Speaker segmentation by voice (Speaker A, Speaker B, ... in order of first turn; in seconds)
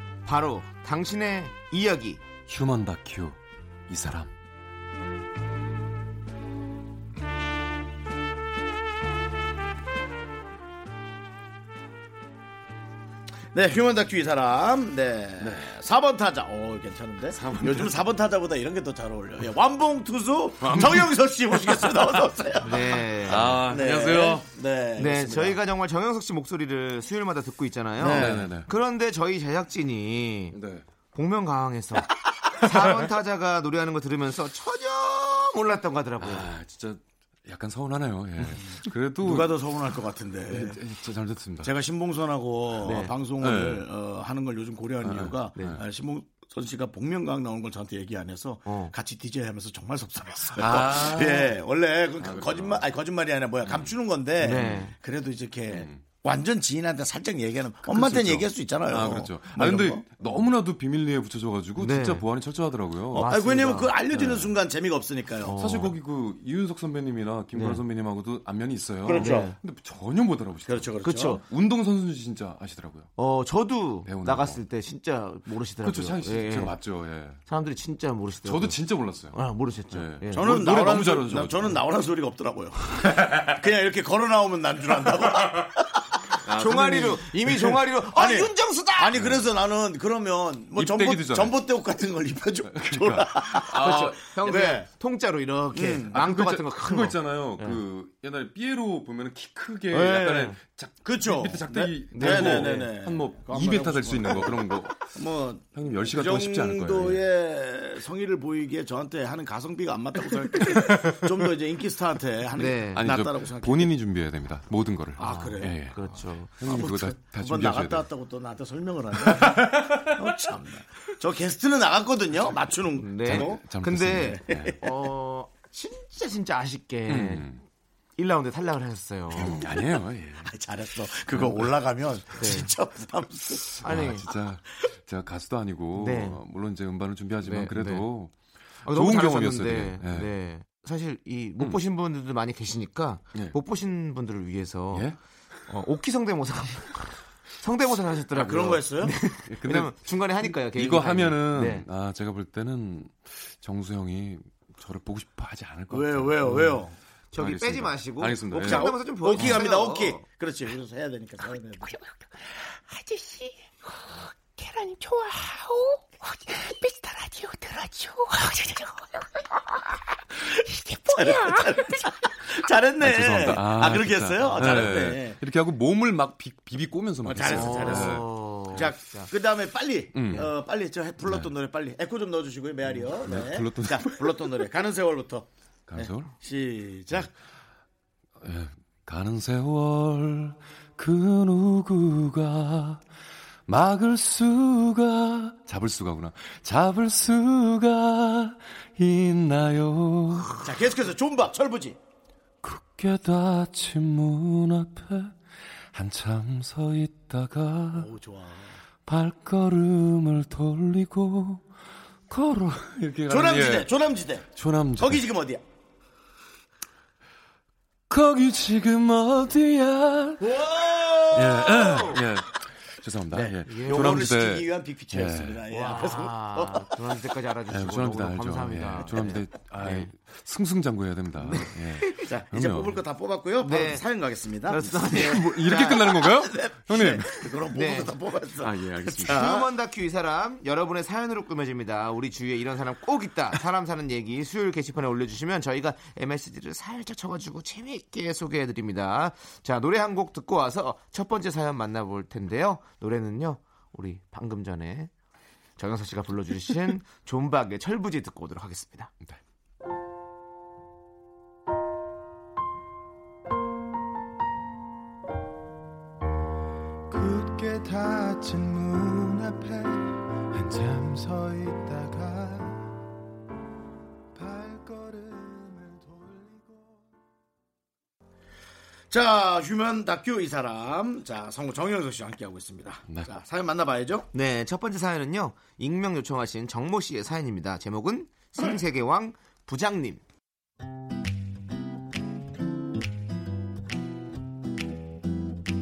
Speaker A: 0.2-2.3, 22.6-23.6, 25.0-30.6, 31.1-36.5, 42.8-43.1, 48.7-48.9, 54.4-54.9, 61.8-62.2, 63.1-64.0, 65.4-65.9, 67.5-67.8, 69.2-69.6, 71.0-71.4, 73.2-76.8, 77.5-80.5, 86.5-89.2, 93.7-97.8, 99.9-100.6, 102.1-102.9, 112.6-113.0, 115.2-116.6, 123.0-127.5, 128.2-129.7, 132.4-132.7, 133.8-134.3, 135.9-136.4, 137.4-138.1, 138.8-145.1, 145.7-151.8, 157.3-160.2, 177.5-179.3, 221.8-222.2, 223.6-224.3, 225.7-230.1, 231.4-232.3, 233.6-234.0, 234.7-236.3, 237.6-238.1, 239.3-255.1, 255.8-259.1, 284.3-290.2
Speaker B: 2.5-4.3, 15.4-15.7, 17.3-17.9, 20.6-21.1, 23.2-24.5, 28.1-28.7, 30.5-30.9, 36.2-39.6, 40.5-41.7, 43.4-43.9, 45.0-45.8, 50.6-51.6, 52.2-52.9, 53.7-53.9, 54.5-54.8, 55.7-56.0, 57.9-63.3, 64.1-64.5, 65.5-73.1, 74.0-74.6, 75.8-77.4, 78.4-79.4, 79.9-81.8, 86.5-87.8, 89.2-89.5, 90.7-91.6, 92.7-94.3, 96.1-105.2, 105.7-107.2, 110.8-111.2, 113.0-116.0, 116.6-118.1, 119.2-120.1, 123.2-124.8, 127.1-127.6, 129.4-130.5, 131.3-131.6, 133.8-140.3, 144.9-145.2, 149.4-159.6, 173.0-178.4, 180.1-180.5, 183.1-184.6, 185.9-186.3, 188.4-193.0, 193.7-200.6, 202.6-205.4, 205.9-208.1, 209.1-211.7, 212.3-213.9, 214.6-215.2, 218.1-220.6, 221.3-225.7, 227.7-233.0, 234.9-237.3, 238.6-239.6
Speaker C: 13.5-25.6, 28.0-28.5, 39.2-40.8, 41.6-60.3, 63.1-65.6, 69.0-69.5, 70.7-71.4, 80.3-86.2, 88.1-94.9, 95.7-96.2, 99.9-114.0, 115.2-115.8, 116.6-123.6, 124.2-124.8, 130.4-133.8, 148.3-149.2, 155.9-156.9, 158.5-162.0, 171.1-175.4, 177.2-187.3, 200.6-202.0, 207.9-208.8, 213.3-215.6, 220.4-221.9, 223.4-226.9, 232.2-234.9, 235.7-239.7, 279.1-284.3
Speaker D: 163.2-163.5, 164.9-166.0, 166.7-167.1, 168.2-168.5
Speaker E: 267.1-272.9, 274.4-277.0